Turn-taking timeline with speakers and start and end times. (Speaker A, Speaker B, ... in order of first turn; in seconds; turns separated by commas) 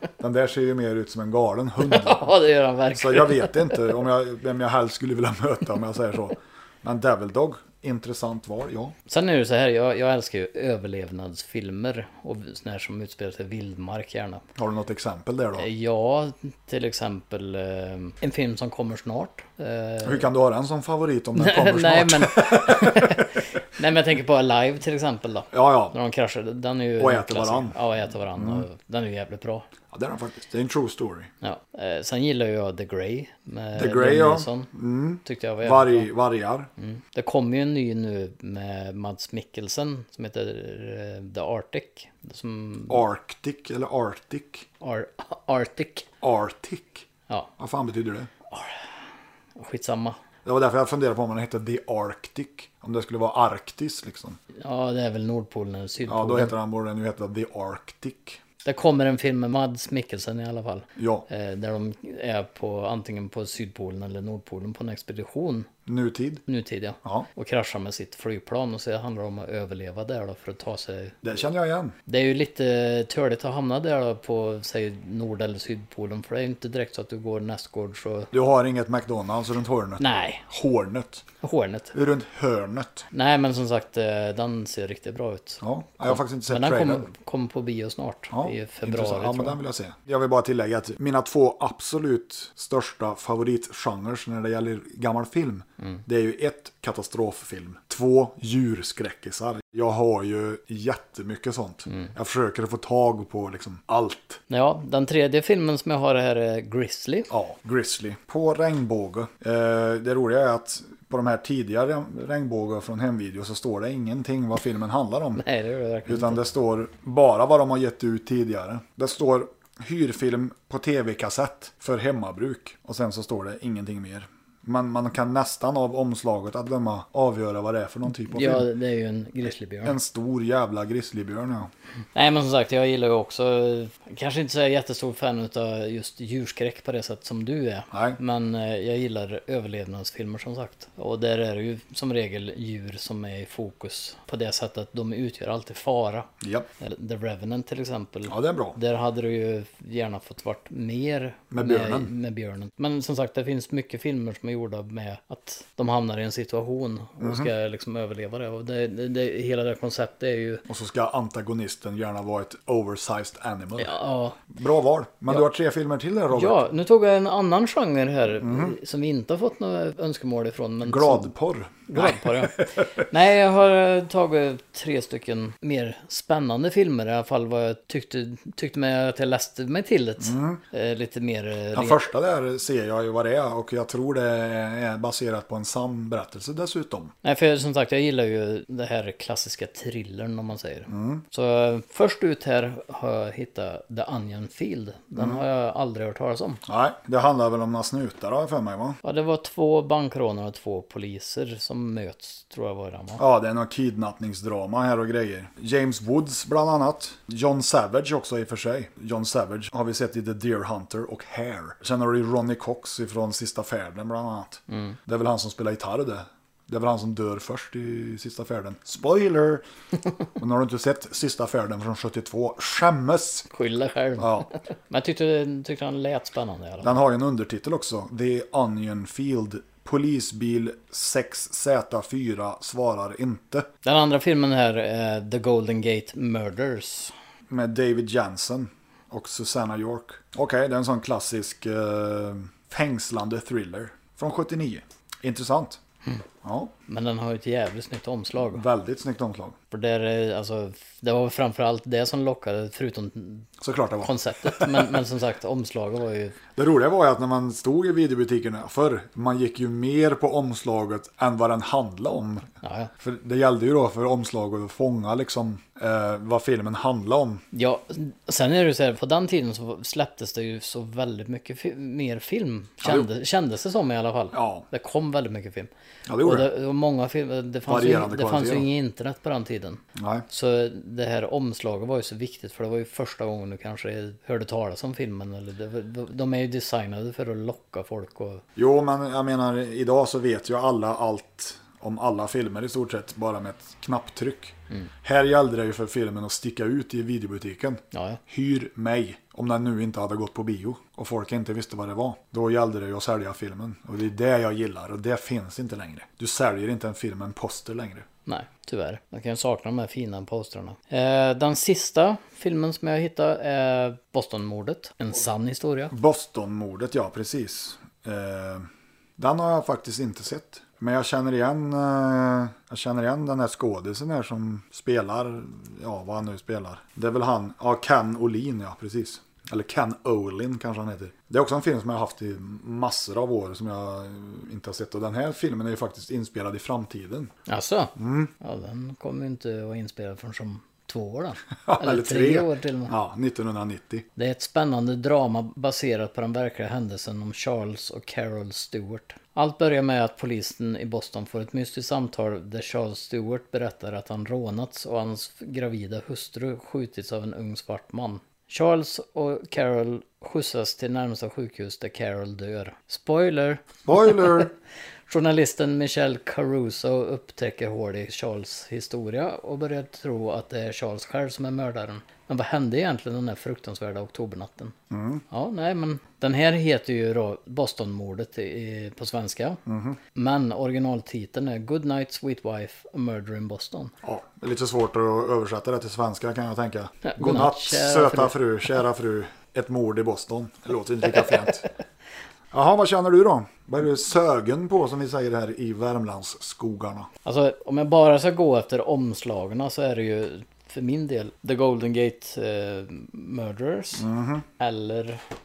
Speaker A: 0.2-2.3, Speaker B: 1.8-3.9, Speaker A: 2.9-8.9, Speaker B: 9.1-14.4, Speaker A: 14.6-15.7, Speaker B: 15.6-20.3, Speaker A: 20.0-23.3, Speaker B: 21.4-29.6, Speaker A: 25.5-25.9, Speaker A: 27.0-27.8, Speaker A: 28.4-28.6, Speaker A: 29.9-31.3, Speaker B: 31.4-34.7, Speaker A: 33.8-36.7, Speaker B: 35.2-36.1, Speaker B: 36.8-43.0, Speaker A: 42.9-44.7, Speaker B: 44.8-46.1, Speaker A: 46.2-47.1, Speaker A: 47.6-48.3, Speaker B: 48.5-48.8, Speaker B: 49.6-50.2, Speaker A: 50.4-54.4, Speaker B: 54.5-56.5, Speaker A: 56.1-58.4, Speaker B: 58.6-65.7, Speaker A: 61.0-61.2, Speaker A: 65.8-66.4, Speaker B: 66.5-71.2, Speaker A: 71.2-71.9, Speaker B: 72.1-78.3, Speaker A: 78.3-81.2, Speaker B: 80.0-80.5, Speaker B: 81.4-81.9, Speaker A: 81.9-83.1, Speaker B: 83.1-89.6, Speaker A: 85.6-87.1, Speaker A: 88.3-104.4, Speaker B: 104.5-107.3, Speaker A: 107.3-115.4, Speaker B: 115.4-116.4, Speaker A: 116.0-128.7, Speaker B: 128.1-130.0, Speaker A: 129.8-131.7, Speaker B: 132.1-146.3, Speaker A: 137.9-138.2, Speaker A: 146.4-146.7, Speaker B: 146.8-160.6, Speaker A: 148.3-148.8, Speaker A: 151.5-152.1, Speaker A: 157.2-157.5, Speaker A: 160.7-163.9, Speaker B: 163.8-164.4, Speaker A: 164.5-166.6, Speaker B: 166.3-171.3, Speaker A: 168.4-168.8, Speaker A: 170.8-173.0, Speaker B: 171.9-182.0, Speaker A: 180.2-180.6, Speaker A: 181.7-187.1, Speaker B: 187.2-196.6, Speaker A: 190.9-191.2, Speaker A: 195.2-195.4, Speaker A: 196.7-199.0, Speaker B: 199.0-203.2, Speaker A: 203.2-219.6, Speaker B: 214.7-215.0, Speaker A: 220.4-223.5, Speaker B: 223.5-227.0, Speaker A: 224.2-224.5, Speaker A: 226.8-233.7, Speaker B: 233.8-237.1, Speaker A: 237.5-245.8, Speaker A: 246.4-246.7, Speaker B: 246.9-248.6, Speaker A: 248.5-249.6, Speaker B: 249.7-253.5, Speaker A: 253.6-254.9, Speaker B: 254.0-256.4, Speaker A: 256.5-267.4, Speaker B: 262.6-262.9, Speaker B: 267.5-275.7, Speaker A: 272.8-273.1, Speaker A: 274.3-274.6, Speaker A: 276.1-276.5, Speaker B: 276.2-288.4, Speaker A: 277.7-278.7, Speaker A: 279.9-280.2, Speaker A: 288.6-308.1, Speaker B: 297.9-298.2, Speaker B: 308.2-315.9, Speaker A: 315.9-318.7, Speaker A: 319.2-337.3, Speaker B: 337.5-342.9, Speaker A: 338.0-338.3, Speaker A: 341.6-344.1, Speaker B: 344.1-364.5, Speaker A: 363.9-364.5, Speaker B: 365.1-374.7, Speaker A: 374.9-375.2, Speaker B: 375.3-379.6, Speaker A: 379.6-380.0, Speaker B: 380.1-383.9, Speaker A: 384.0-391.7, Speaker B: 387.0-388.3, Speaker A: 392.5-397.1, Speaker B: 397.2-404.1, Speaker A: 404.0-404.4, Speaker B: 404.6-405.2